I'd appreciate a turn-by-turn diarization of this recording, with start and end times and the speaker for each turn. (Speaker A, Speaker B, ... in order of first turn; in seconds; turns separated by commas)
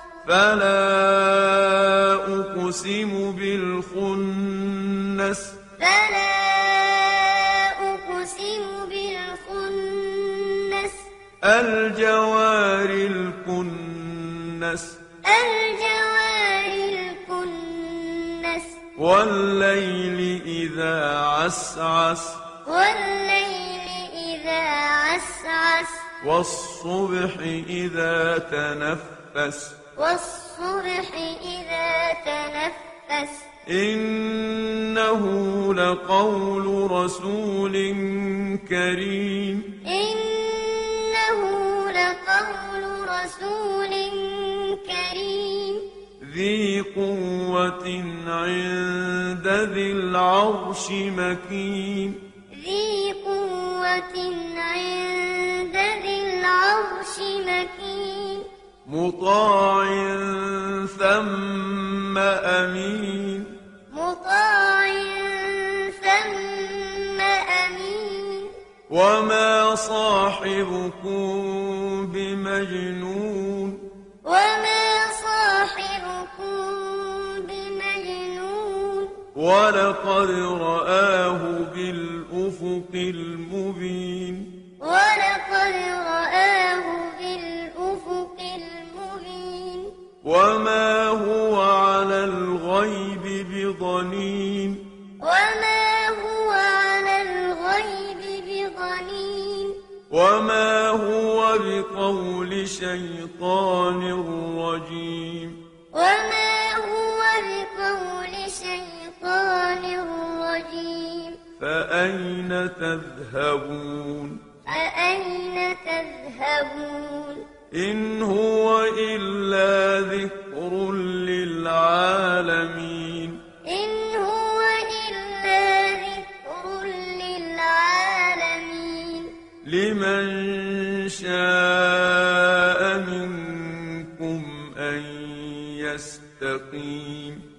Speaker A: 0.2-5.6, Speaker B: 5.8-11.1, Speaker A: 11.4-15.0, Speaker B: 15.2-18.8, Speaker A: 18.9-22.4, Speaker B: 22.6-26.1, Speaker A: 26.2-29.8, Speaker B: 29.9-33.5, Speaker A: 33.7-39.7, Speaker B: 39.8-45.9, Speaker A: 46.2-52.2, Speaker B: 52.5-58.5, Speaker A: 58.9-63.6, Speaker B: 63.9-68.5, Speaker A: 68.9-73.9, Speaker B: 74.2-79.2, Speaker A: 79.3-84.5, Speaker B: 84.8-89.9, Speaker A: 90.2-94.8, Speaker B: 95.2-99.8, Speaker A: 100.1-105.6, Speaker B: 105.9-111.4, Speaker A: 111.6-114.5, Speaker B: 114.6-117.5, Speaker A: 117.7-123.4, Speaker B: 123.6-129.3, Speaker A: 129.6-137.4